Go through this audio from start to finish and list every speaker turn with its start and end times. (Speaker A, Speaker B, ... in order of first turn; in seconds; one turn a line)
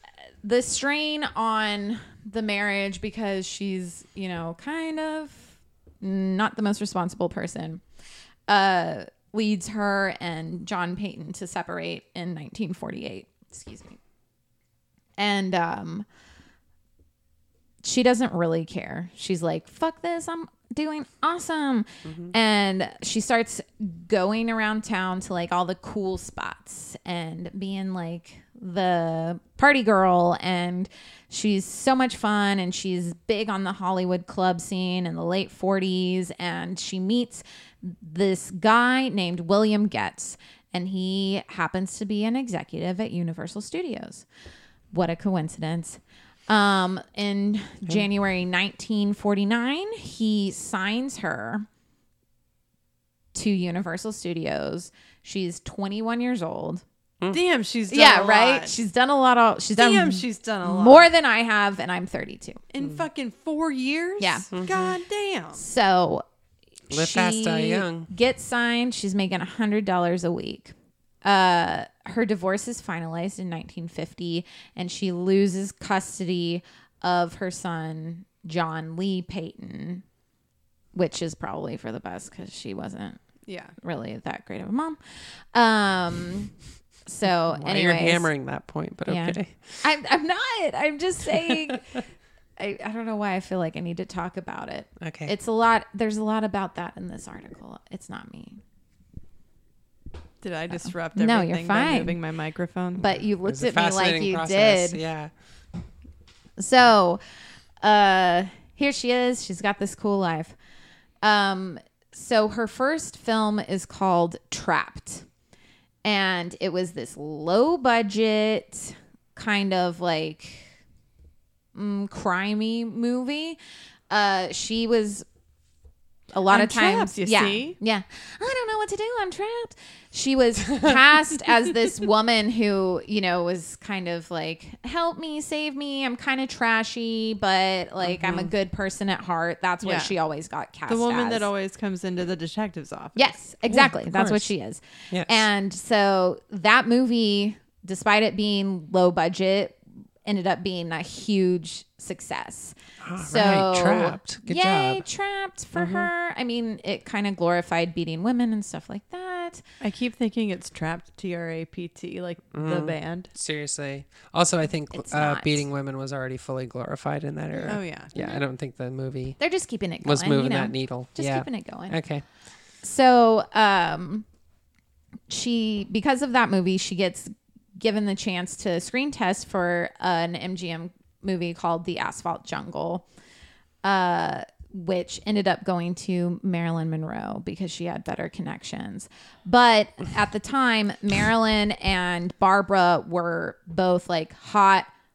Speaker A: 0.4-7.8
Speaker A: 8.5-14.0
Speaker A: 15.2-16.1
Speaker A: 17.8-44.3
Speaker B: 22.1-22.3
Speaker A: 44.9-51.7
Speaker A: 53.3-56.8
Speaker C: 57.3-58.8
Speaker A: 57.9-62.6
Speaker C: 59.8-61.1
Speaker C: 62.7-65.7
Speaker A: 64.2-64.5
Speaker B: 64.5-65.0
Speaker A: 65.6-66.2
Speaker A: 66.9-80.0
Speaker B: 66.9-68.1
Speaker A: 81.0-83.2
Speaker C: 83.5-83.7
Speaker A: 83.8-85.0
Speaker A: 85.5-86.5
Speaker A: 87.1-88.3
Speaker B: 87.5-89.8
Speaker A: 89.1-92.0
Speaker A: 92.6-98.6
Speaker B: 95.0-95.3
Speaker C: 100.4-103.1
Speaker A: 100.8-102.2
Speaker A: 103.0-105.0
Speaker B: 103.5-105.3
Speaker A: 106.6-107.2
Speaker A: 107.8-110.6
Speaker A: 111.2-115.3
Speaker A: 116.0-120.7
Speaker A: 121.8-123.6
Speaker A: 124.1-125.2
Speaker A: 126.3-141.5
Speaker C: 126.5-127.8
Speaker C: 139.8-140.1
Speaker C: 140.9-143.3
Speaker A: 143.2-159.6
Speaker B: 143.7-144.5
Speaker B: 145.1-145.5
Speaker B: 153.0-155.1
Speaker B: 155.8-156.1
Speaker C: 159.8-163.3
Speaker B: 162.5-169.4
Speaker A: 164.9-165.7
Speaker A: 167.6-168.4
Speaker C: 167.7-168.1
Speaker A: 169.4-172.0
Speaker B: 170.0-172.2
Speaker A: 172.8-174.3
Speaker A: 175.3-183.1
Speaker A: 183.8-194.9